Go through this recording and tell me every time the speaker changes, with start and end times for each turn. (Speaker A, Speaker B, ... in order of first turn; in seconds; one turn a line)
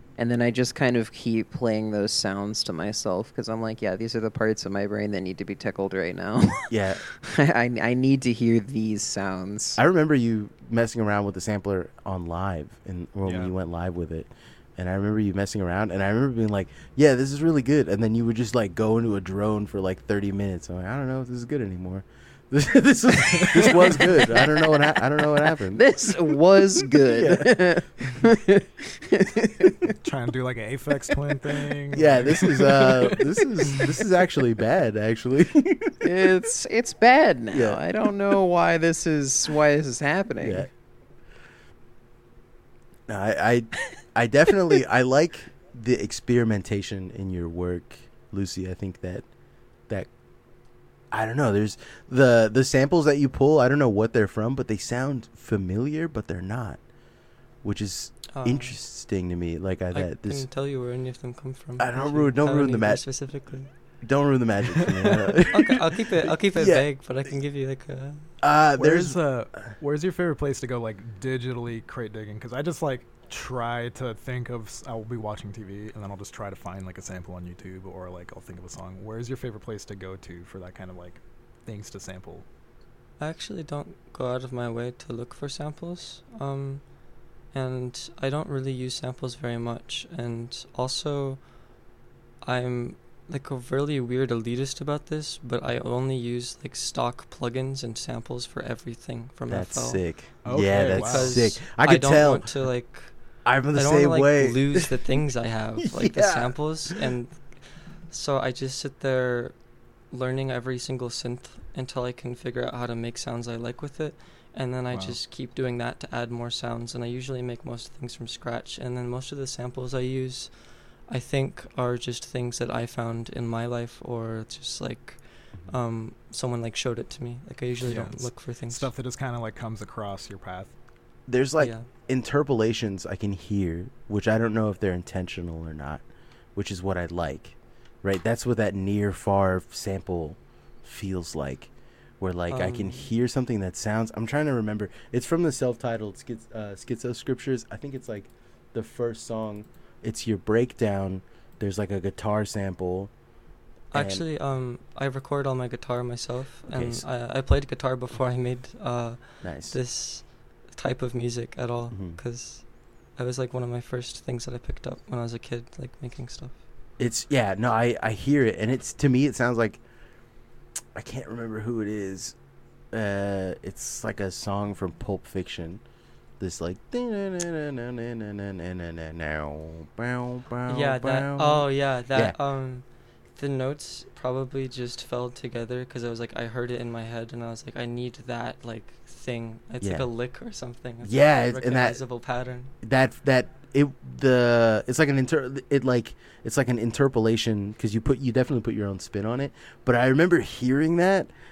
Speaker A: 0.2-9.8
Speaker B: 6.7-7.0
Speaker B: 9.8-27.6
Speaker C: 13.2-13.5
Speaker A: 23.4-29.4
Speaker B: 29.3-29.9
Speaker C: 30.0-33.2
Speaker B: 31.9-36.1
Speaker A: 36.0-40.7
Speaker B: 37.5-37.8
Speaker B: 40.4-40.7
Speaker B: 43.1-49.2
Speaker B: 51.1-56.8
Speaker B: 57.6-60.5
Speaker D: 58.3-58.7
Speaker D: 59.9-63.7
Speaker B: 61.8-63.1
Speaker B: 64.0-66.8
Speaker D: 65.5-68.3
Speaker B: 68.4-69.7
Speaker C: 68.8-82.5
Speaker D: 83.2-91.5
Speaker D: 92.4-100.0
Speaker B: 99.5-102.5
Speaker C: 100.4-101.5
Speaker D: 100.8-103.2
Speaker B: 103.4-105.0
Speaker D: 103.7-109.5
Speaker B: 105.8-107.0
Speaker D: 110.1-128.9
Speaker C: 114.9-115.2
Speaker C: 127.8-130.7
Speaker B: 131.3-136.0
Speaker D: 131.6-131.9
Speaker B: 136.5-153.1
Speaker D: 142.5-143.1
Speaker D: 153.9-166.6
Speaker B: 153.9-154.2
Speaker B: 156.7-157.0
Speaker B: 159.4-159.8
Speaker B: 161.9-162.2
Speaker B: 167.0-169.8
Speaker B: 170.9-172.3
Speaker B: 172.9-175.8
Speaker B: 176.4-182.4
Speaker D: 180.7-192.7
Speaker B: 189.8-190.1
Speaker B: 191.0-192.0
Speaker B: 192.8-201.3